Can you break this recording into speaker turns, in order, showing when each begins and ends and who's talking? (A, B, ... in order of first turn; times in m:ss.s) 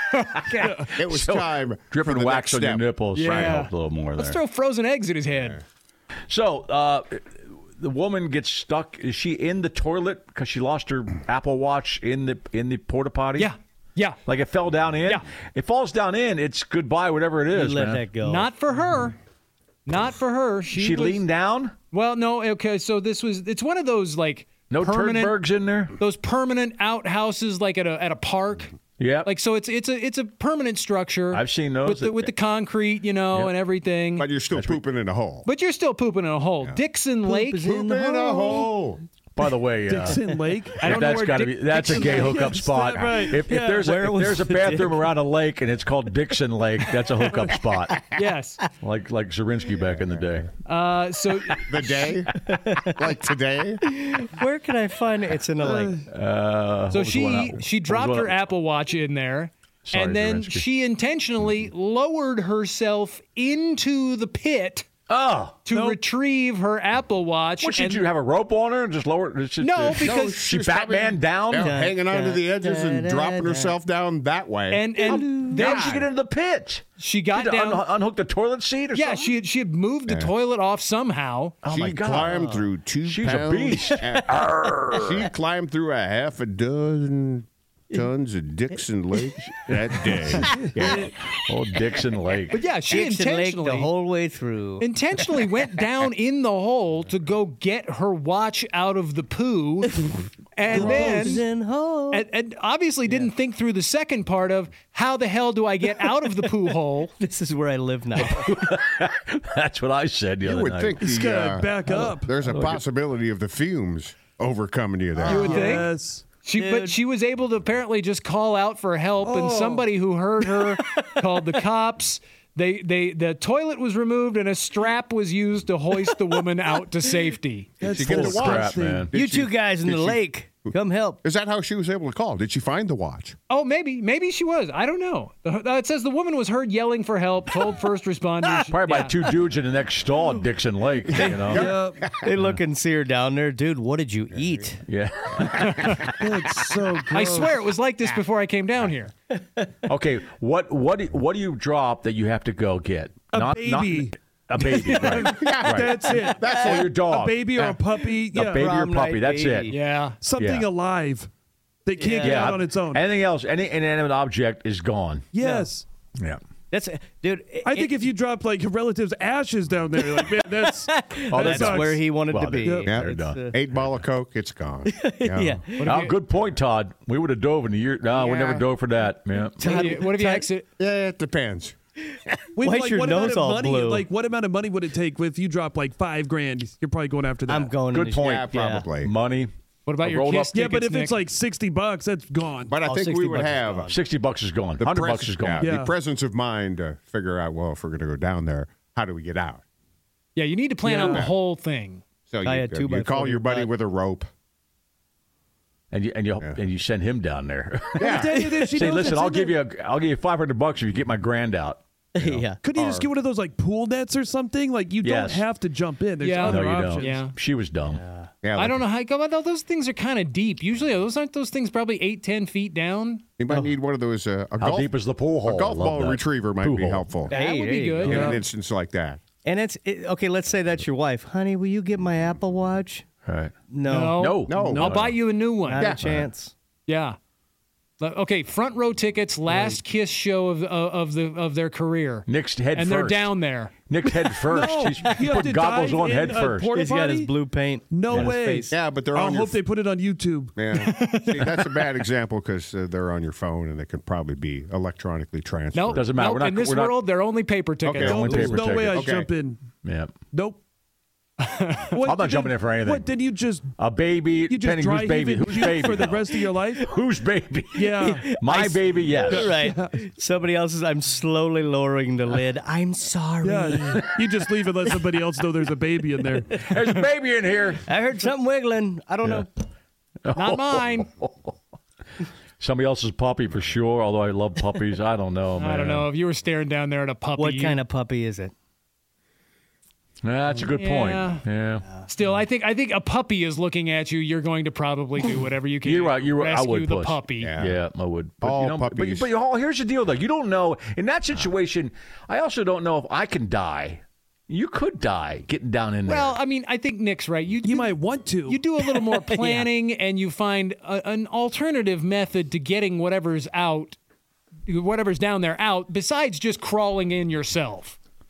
0:00.1-0:00.8 A
0:00.9-0:03.5 B
0:01.0-0:04.4 C
0:03.1-0:05.6 A
0:05.3-0:05.6 B
0:06.3-0:13.5 C
0:13.4-0:14.2 A
0:14.2-0:18.1 C
0:17.5-0:18.5 D
0:18.2-0:19.2 A
0:19.8-0:21.2 A
0:20.7-0:21.7 C
0:21.9-0:25.4 A
0:24.7-0:26.0 C
0:26.0-0:34.3 A
0:29.0-0:29.3 C
0:31.3-0:32.3 C
0:34.2-0:35.5 B
0:34.5-0:34.8 C
0:35.4-0:38.2 A
0:37.3-0:37.7 D
0:37.6-0:39.0 B
0:38.3-0:38.6 E
0:39.3-0:48.1 C
0:39.9-0:40.9 E
0:40.8-0:42.5 A
0:41.7-0:44.0 E
0:43.8-0:45.0 D
0:48.1-0:48.6 A
0:48.8-0:50.5 C
0:49.8-0:50.5 B
0:50.6-0:52.0 A
0:51.7-0:53.8 B
0:52.5-0:53.0 D
0:53.9-0:56.0 D
0:55.6-0:56.0 E
0:56.1-0:58.5 C
0:56.9-1:04.8 A
0:59.8-1:00.6 C
1:05.1-1:05.6 C
1:05.6-1:08.1 A
1:05.7-1:06.0 E
1:07.6-1:11.8 C
1:09.6-1:10.4 A
1:10.0-1:14.9 B
1:11.6-1:13.8 D
1:14.7-1:16.0 A
1:15.0-1:19.3 C
1:15.2-1:15.6 D
1:15.6-1:16.0 B
1:17.0-1:17.8 A
1:18.9-1:21.5 A
1:20.1-1:20.3 B
1:21.6-1:25.3 C
1:21.7-1:30.6 B
1:29.7-1:32.6 C
1:30.6-1:31.1 E
1:32.5-1:33.9 A
1:32.8-1:35.2 D
1:34.8-1:41.4 A
1:40.6-1:42.3 D
1:40.8-1:41.4 E
1:42.1-1:47.1 A
1:47.2-1:48.6 D
1:48.1-1:51.0 C
1:50.4-1:55.6 B
1:51.0-1:52.7 E
1:55.2-1:55.9 A
1:55.3-1:56.4 E
1:56.4-2:07.7 A
1:56.5-1:57.0 D
1:59.2-1:59.9 E
2:00.7-2:01.0 D
2:07.8-2:09.1 E
2:07.8-2:13.4 B
2:08.0-2:09.1 C
2:09.1-2:11.2 D
2:13.5-2:19.2 A
2:18.5-2:21.7 C
2:21.1-2:21.5 D
2:21.4-2:22.3 B
2:21.5-2:22.1 E
2:22.1-2:24.8 D
2:22.3-2:22.6 C
2:24.3-2:24.7 B
2:24.9-2:26.1 C
2:25.5-2:25.9 A
2:26.2-2:27.6 E
2:27.1-2:29.1 A
2:29.8-2:37.7 C
2:33.3-2:38.7 E
2:34.7-2:35.3 A
2:35.2-2:36.9 B
2:38.3-2:39.7 C
2:38.6-2:39.8 D
2:39.7-2:40.2 A
2:40.2-2:41.3 E
2:40.3-2:40.7 C
2:41.8-2:43.0 E
2:42.0-2:42.6 D
2:42.1-2:45.3 C
2:45.3-2:45.8 E
2:45.4-2:45.7 D
2:46.7-2:48.1 D
2:47.6-2:52.9 E
2:49.9-2:53.5 D
2:51.3-2:54.0 C
2:52.8-2:55.6 B
2:54.9-2:55.8 D
2:55.8-2:56.1 A
2:55.8-2:59.7 C
2:58.1-2:58.6 B
2:59.6-3:00.5 D
2:59.6-3:00.6 A
3:00.8-3:01.8 B
3:02.6-3:07.8 E
3:02.6-3:04.1 D
3:07.5-3:08.9 D
3:07.9-3:10.6 C
3:08.1-3:09.1 B
3:09.8-3:11.2 A
3:10.5-3:12.7 E
3:12.7-3:13.9 B
3:12.8-3:14.0 D
3:13.9-3:15.7 C
3:14.8-3:19.6 B
3:15.6-3:15.9 E
3:20.3-3:22.0 A
3:21.0-3:21.3 B
3:22.3-3:24.3 B
3:22.4-3:23.7 D
3:25.9-3:32.5 C
3:28.0-3:28.4 B
3:28.0-3:29.6 E
3:32.2-3:32.6 D
3:32.6-3:37.3 E
3:32.7-3:33.1 B
3:35.0-3:35.5 C
3:36.2-3:37.3 A
3:36.4-3:38.0 C
3:37.9-3:38.3 D
3:38.4-3:38.8 B
3:38.6-3:43.2 A
3:43.4-3:44.9 B
3:44.6-3:47.2 C
3:45.4-3:47.3 B
3:47.3-3:48.3 A
3:47.3-3:48.4 D
3:48.0-3:48.4 E
3:48.0-3:49.2 B
3:49.4-3:53.0 D
3:53.2-3:53.5 C
3:53.7-3:54.7 D
3:53.8-3:56.0 A
3:54.2-3:55.2 C
3:54.4-3:54.9 B
3:55.6-3:56.5 D
3:56.0-3:56.3 C
3:56.9-3:57.2 A
3:58.0-4:03.7 A
3:59.5-3:59.8 D
4:02.3-4:03.3 C
4:03.9-4:06.8 C
4:04.4-4:07.3 E
4:06.7-4:08.7 D
4:07.9-4:10.6 E
4:08.1-4:08.4 C
4:08.7-4:09.6 B
4:10.6-4:16.0 B
4:10.8-4:11.5 A
4:15.7-4:18.5 A
4:15.9-4:17.0 C
4:17.8-4:19.1 C
4:17.9-4:18.4 B
4:18.0-4:19.6 E
4:18.9-4:19.3 B
4:19.8-4:20.1 C
4:20.3-4:20.6 E
4:21.4-4:22.0 A
4:21.9-4:23.7 E
4:22.0-4:23.1 C
4:23.8-4:29.6 C
4:24.4-4:26.9 E
4:27.7-4:28.3 E
4:28.0-4:33.9 D
4:29.0-4:30.0 E
4:33.4-4:36.6 E
4:33.8-4:34.1 C
4:36.3-4:36.7 D
4:36.6-4:38.0 C
4:37.8-4:39.5 D
4:39.2-4:39.5 C
4:40.2-4:41.5 C
4:40.3-4:41.1 A
4:42.6-4:46.1 C
4:45.6-4:47.8 A
4:47.4-4:48.5 D
4:50.2-4:51.8 C
4:50.7-4:51.4 A
4:52.0-4:57.5 A
4:55.8-5:06.4 C
4:57.4-4:57.8 B
4:58.4-4:59.3 B
5:06.0-5:14.0 A
5:07.6-5:08.6 E
5:08.8-5:09.7 D
5:14.7-5:18.0 A